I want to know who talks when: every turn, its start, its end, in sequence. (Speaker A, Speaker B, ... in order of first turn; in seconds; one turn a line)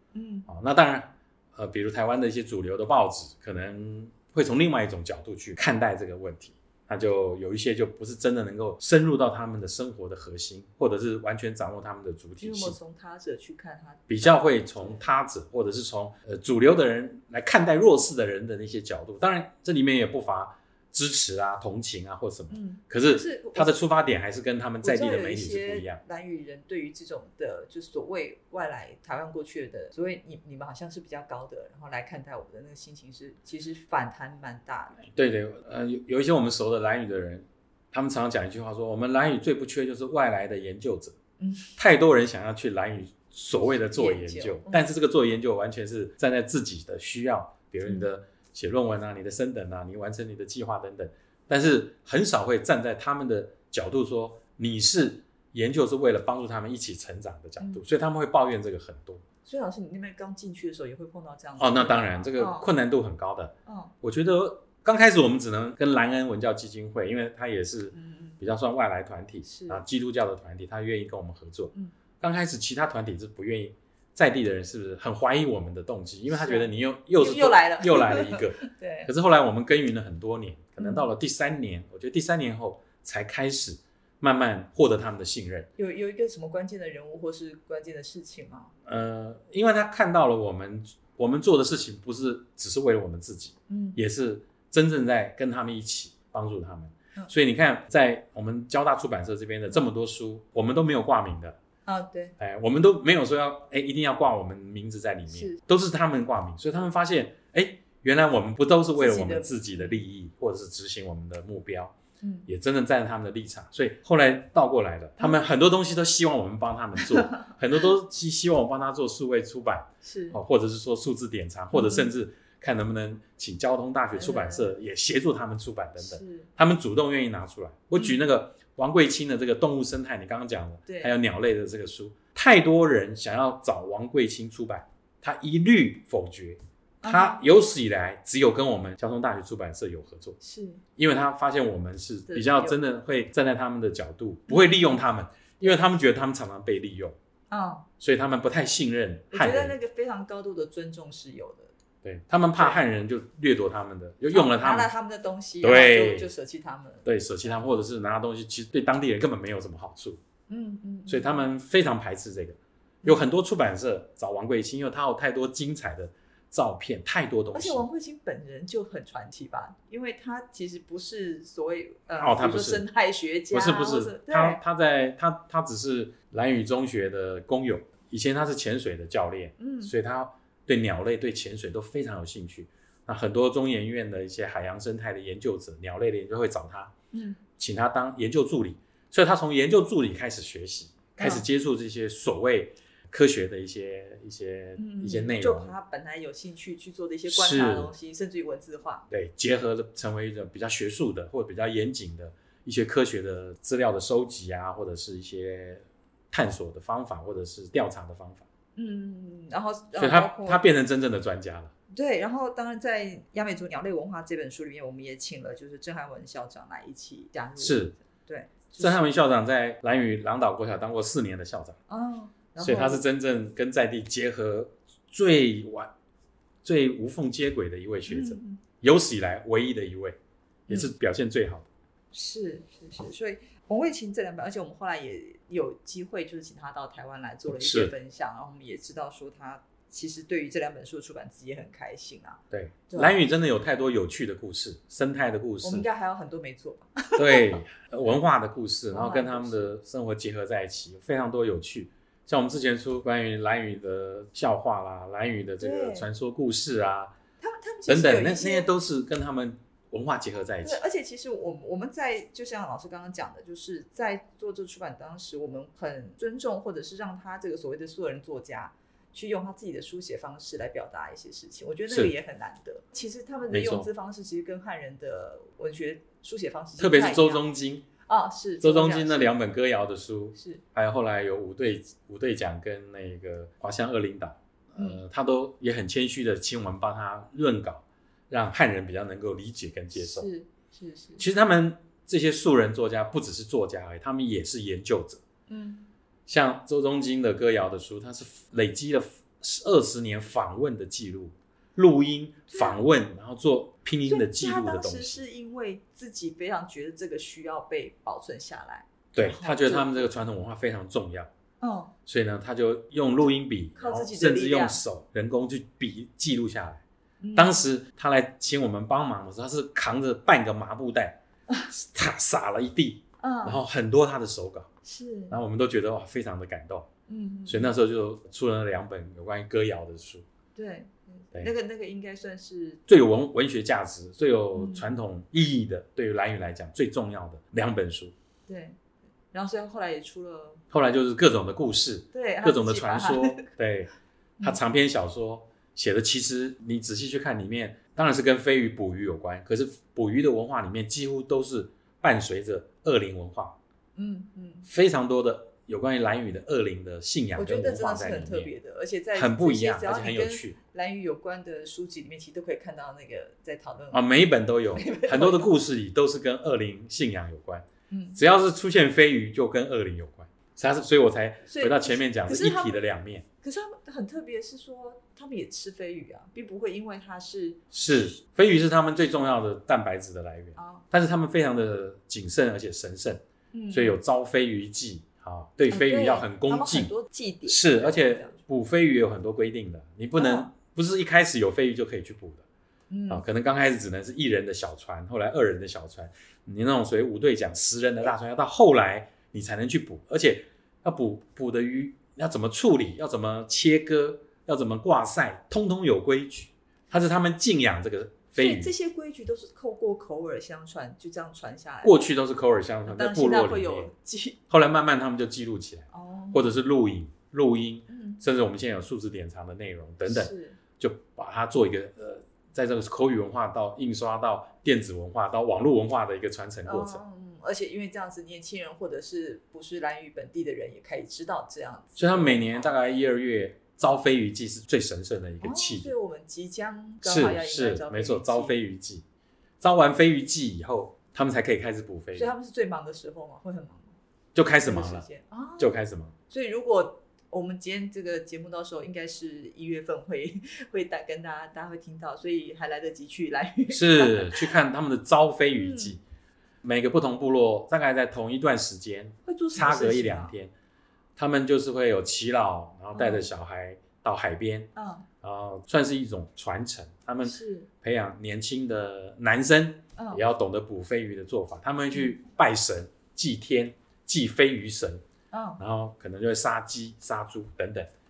Speaker A: 0.1-0.5
Speaker B: 0.5-12.8
Speaker A: 12.4-15.0
Speaker B: 14.1-26.0
Speaker A: 22.5-23.8
Speaker A: 24.8-35.0
Speaker B: 35.0-41.2
Speaker A: 41.4-41.7
Speaker B: 41.8-59.2
Speaker A: 43.9-44.9
Speaker A: 59.5-62.7
Speaker B: 61.6-85.7
Speaker A: 63.7-63.9
Speaker A: 67.9-68.4
Speaker A: 69.4-69.8
Speaker A: 76.3-79.1
Speaker A: 80.8-81.1
Speaker A: 85.8-88.7
Speaker B: 88.8-101.6
Speaker A: 93.7-94.0
Speaker A: 101.8-102.3
Speaker B: 102.4-111.9
Speaker A: 105.3-105.6
Speaker A: 109.0-110.0
Speaker A: 112.2-112.5
Speaker B: 112.5-140.4
Speaker A: 115.2-115.5
Speaker A: 120.0-120.4
Speaker A: 121.7-122.1
Speaker A: 124.1-124.7
Speaker A: 126.0-126.5
Speaker A: 130.9-131.1
Speaker A: 137.0-137.4
Speaker A: 140.4-140.8
Speaker B: 141.0-147.2
Speaker A: 142.3-142.8
Speaker A: 144.5-145.0
Speaker A: 147.5-147.9
Speaker B: 148.0-149.8
Speaker A: 149.3-151.7
Speaker B: 152.0-154.9
Speaker A: 154.3-157.1
Speaker B: 155.6-156.3
Speaker B: 157.0-160.2
Speaker A: 160.5-161.4
Speaker B: 161.1-167.8
Speaker A: 167.5-174.6
Speaker B: 172.2-172.8
Speaker B: 173.5-186.9
Speaker A: 179.6-179.9
Speaker A: 187.1-187.4
Speaker B: 187.6-195.7
Speaker A: 191.2-191.4
Speaker A: 194.8-199.1
Speaker B: 197.3-197.9
Speaker B: 199.1-208.4
Speaker A: 208.8-210.6
Speaker B: 209.9-211.7
Speaker A: 211.9-219.0
Speaker B: 217.6-217.9
Speaker B: 218.8-221.8
Speaker A: 221.9-223.0
Speaker B: 222.6-225.9
Speaker B: 226.6-230.2
Speaker A: 228.1-228.6
Speaker B: 230.7-231.7
Speaker A: 232.1-243.2
Speaker B: 237.6-237.9
Speaker B: 242.5-245.8
Speaker A: 245.6-247.6
Speaker B: 247.2-257.1
Speaker A: 248.9-249.7
Speaker A: 255.6-256.1
Speaker A: 257.4-258.7
Speaker B: 257.9-260.8
Speaker A: 260.6-277.4
Speaker B: 271.9-272.1
Speaker B: 273.5-273.9
Speaker B: 276.8-277.9
Speaker A: 278.1-279.5
Speaker B: 278.6-290.3
Speaker A: 280.4-280.6
Speaker A: 290.0-291.2
Speaker B: 291.2-295.2
Speaker A: 295.5-295.9
Speaker B: 296.3-305.2
Speaker A: 302.5-302.8
Speaker A: 304.1-310.1
Speaker B: 309.1-311.3
Speaker A: 311.6-311.9
Speaker B: 312.1-316.8
Speaker A: 313.8-314.8
Speaker A: 317.2-317.6
Speaker B: 317.3-321.2
Speaker B: 321.7-324.7
Speaker A: 323.2-323.6
Speaker A: 324.8-325.4
Speaker B: 325.3-326.9
Speaker A: 327.1-327.8
Speaker B: 327.5-330.2
Speaker A: 330.5-332.8
Speaker B: 332.9-338.1
Speaker A: 334.5-334.9
Speaker A: 338.5-338.8
Speaker A: 339.3-340.6
Speaker B: 340.7-353.6
Speaker A: 342.1-343.5
Speaker A: 353.9-354.7
Speaker B: 354.7-358.5
Speaker A: 357.4-365.5
Speaker B: 359.1-360.6
Speaker B: 363.9-373.2
Speaker A: 367.9-368.2
Speaker A: 371.4-372.8
Speaker A: 373.4-378.1
Speaker B: 377.7-386.9
Speaker A: 380.6-380.8
Speaker A: 383.5-384.0
Speaker A: 385.7-388.4
Speaker B: 387.5-392.4
Speaker A: 390.1-390.5
Speaker A: 392.9-393.2
Speaker B: 393.1-408.7
Speaker A: 408.4-412.1
Speaker B: 411.8-413.9
Speaker A: 412.9-414.4
Speaker B: 414.5-427.0
Speaker A: 415.9-416.6
Speaker A: 417.9-418.2
Speaker A: 420.1-420.6
Speaker A: 426.6-432.7
Speaker B: 431.9-435.9
Speaker A: 435.4-438.5
Speaker B: 437.0-439.0
Speaker B: 439.6-442.3
Speaker A: 442.1-443.9
Speaker B: 444.3-445.1
Speaker A: 444.5-445.8
Speaker B: 445.6-446.1
Speaker A: 446.3-454.5
Speaker B: 453.7-456.0
Speaker A: 455.5-455.9
Speaker B: 456.6-460.5
Speaker A: 459.2-460.3
Speaker B: 461.1-464.7
Speaker A: 462.9-463.3
Speaker A: 464.8-465.1
Speaker B: 465.2-475.0
Speaker A: 467.2-467.7
Speaker A: 470.0-470.2
Speaker A: 475.3-475.6
Speaker B: 475.6-477.9